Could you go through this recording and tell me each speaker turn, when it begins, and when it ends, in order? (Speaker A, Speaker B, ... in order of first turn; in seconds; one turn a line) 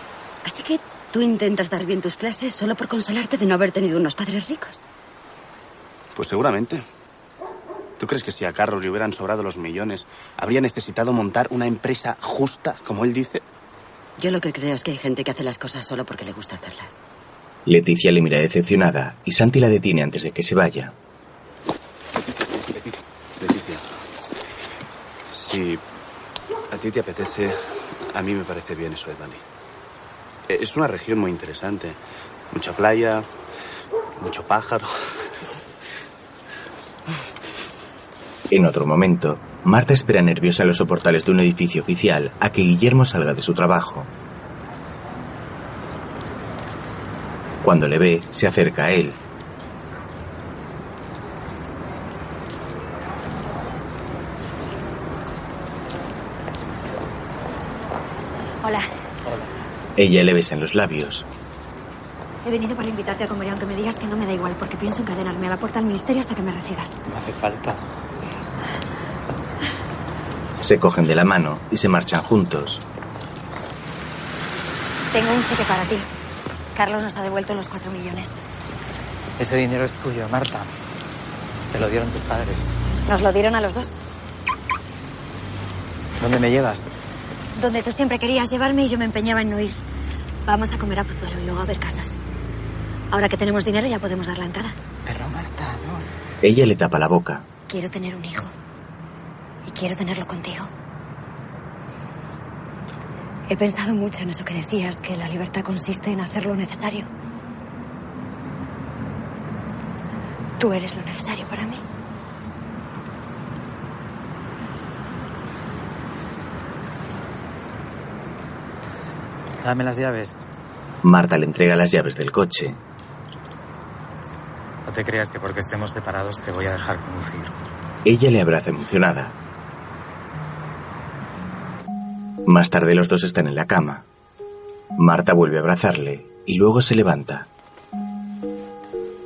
Speaker A: 0.5-4.8
Speaker B: 6.2-6.8
Speaker B: 8.0-13.4
Speaker A: 14.2-17.0
Speaker C: 17.7-21.0
Speaker B: 22.2-23.8
Speaker B: 25.3-25.8
Speaker B: 26.7-27.6
Speaker B: 28.1-29.4
Speaker B: 30.5-32.0
Speaker B: 32.5-33.3
Speaker B: 34.2-34.9
Speaker C: 38.5-44.1
Speaker C: 47.6-49.2
Speaker D: 58.6-58.9
Speaker C: 60.0-61.3
Speaker D: 62.4-67.0
Speaker E: 67.1-67.8
Speaker C: 70.6-72.8
Speaker D: 75.1-76.1
Speaker D: 76.8-78.4
Speaker E: 79.4-80.7
Speaker E: 81.7-82.7
Speaker D: 83.1-84.0
Speaker E: 86.2-86.9
Speaker D: 87.5-89.8
Speaker D: 90.5-92.2
Speaker D: 93.1-94.8
Speaker E: 95.0-96.1
Speaker C: 96.4-97.5
Speaker D: 97.7-98.5
Speaker D: 99.7-100.7
Speaker D: 103.5-107.1
Speaker D: 110.6-111.8
Speaker E: 119.6-120.5
Speaker C: 121.0-122.8
Speaker E: 124.8-127.6
Speaker C: 128.1-129.4
Speaker C: 132.4-134.1
Speaker C: 135.0-137.5